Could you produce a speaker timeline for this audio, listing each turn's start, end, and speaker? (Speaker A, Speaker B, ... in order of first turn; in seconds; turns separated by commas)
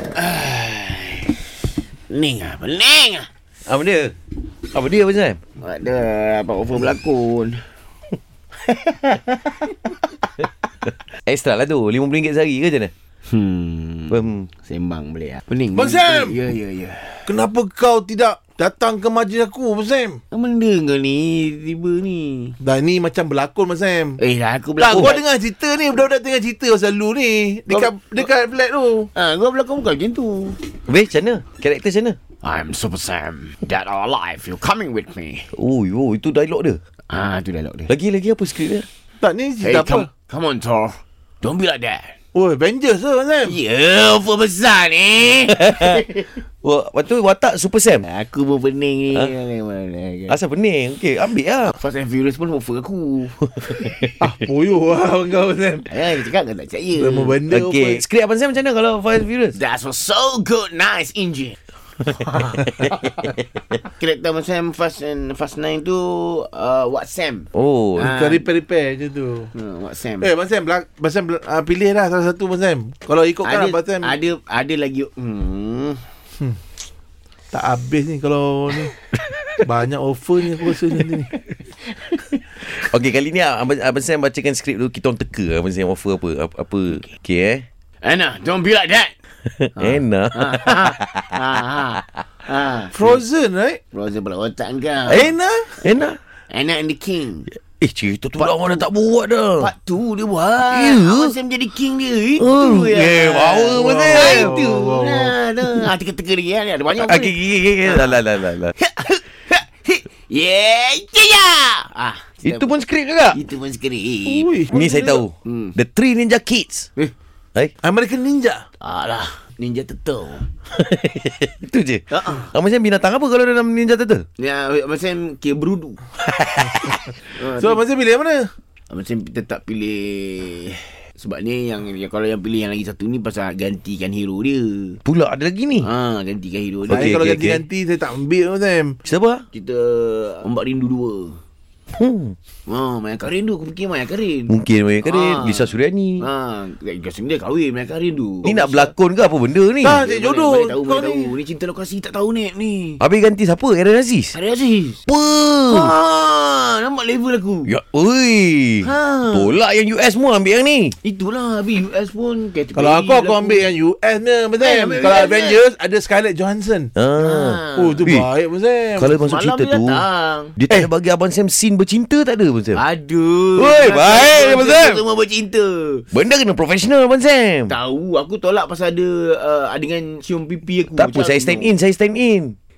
Speaker A: 0.1-1.4, Speaker A: 2.1-3.3, Speaker B: 3.7-4.2, Speaker B: 4.7-5.4, Speaker A: 5.6-7.6, Speaker A: 8.7-9.7, Speaker B: 11.3-12.9, Speaker A: 13.3-17.3, Speaker B: 14.1-14.5, Speaker C: 15.7-16.4, Speaker C: 17.3-20.2, Speaker A: 20.3-22.6, Speaker C: 22.6-24.2, Speaker A: 24.2-25.2, Speaker C: 24.8-29.1, Speaker A: 27.7-28.3, Speaker A: 29.1-30.6, Speaker B: 30.9-32.2, Speaker A: 32.4-35.5, Speaker B: 35.5-36.8, Speaker A: 37.1-37.9, Speaker B: 37.9-38.9, Speaker C: 39.2-40.1, Speaker A: 39.6-42.1, Speaker C: 42.3-43.6, Speaker A: 43.5-46.3, Speaker B: 45.6-46.0, Speaker B: 46.6-48.1, Speaker A: 48.0-50.4, Speaker B: 50.3-51.7, Speaker A: 51.7-53.8, Speaker C: 54.2-55.9, Speaker A: 55.9-57.4, Speaker C: 57.0-58.0, Speaker B: 57.5-59.6, Speaker A: 59.5-61.6, Speaker B: 62.0-63.4, Speaker A: 63.9-68.5, Speaker B: 67.5-68.1, Speaker C: 68.0-69.5, Speaker A: 69.5-70.3, Speaker C: 70.2-74.2, Speaker A: 73.4-76.0, Speaker C: 77.5-78.9, Speaker C: 79.6-81.3, Speaker B: 82.6-87.7, Speaker A: 88.0-89.1, Speaker B: 89.5-91.3, Speaker A: 89.8-93.2, Speaker C: 92.9-93.8, Speaker A: 93.9-95.3, Speaker C: 95.1-95.8, Speaker B: 95.8-96.2, Speaker A: 96.5-97.5, Speaker B: 97.7-99.7, Speaker A: 98.4-98.8, Speaker A: 99.6-108.2, Speaker B: 100.7-101.3, Speaker B: 102.4-104.9, Speaker C: 103.7-105.3, Speaker B: 106.9-108.7, Speaker A: 108.7-112.8, Speaker B: 112.4-113.4, Speaker A: 113.3-114.5, Speaker C: 114.2-115.2, Speaker B: 114.7-116.9, Speaker A: 115.5-115.8, Speaker C: 117.8-118.6, Speaker A: 118.8-120.5, Speaker B: 120.7-124.3, Speaker A: 122.1-122.5, Speaker A: 124.4-126.0, Speaker B: 126.2-127.0, Speaker A: 127.3-127.8, Speaker C: 127.6-128.5, Speaker A: 128.9-135.0, Speaker B: 135.1-135.9, Speaker A: 135.8-137.2, Speaker B: 136.9-137.6, Speaker C: 136.9-139.0, Speaker B: 139.1-139.4, Speaker A: 139.5-141.4, Speaker B: 141.9-142.4, Speaker A: 142.7-148.9, Speaker B: 144.5-146.2, Speaker B: 148.4-150.0, Speaker C: 149.8-151.3, Speaker A: 149.9-153.0, Speaker B: 153.0-154.4, Speaker A: 154.3-155.0, Speaker B: 155.1-155.9, Speaker A: 155.7-157.7, Speaker B: 157.7-160.9, Speaker A: 158.8-159.6, Speaker A: 161.0-163.7, Speaker C: 162.8-166.9, Speaker A: 164.6-165.6, Speaker B: 167.0-168.3, Speaker A: 167.2-168.1, Speaker C: 167.8-169.2, Speaker B: 169.0-170.0, Speaker A: 169.1-170.6, Speaker B: 170.6-172.8, Speaker A: 172.8-176.1, Speaker B: 173.6-175.0, Speaker B: 176.1-177.7, Speaker A: 177.7-181.8, Speaker B: 181.0-182.6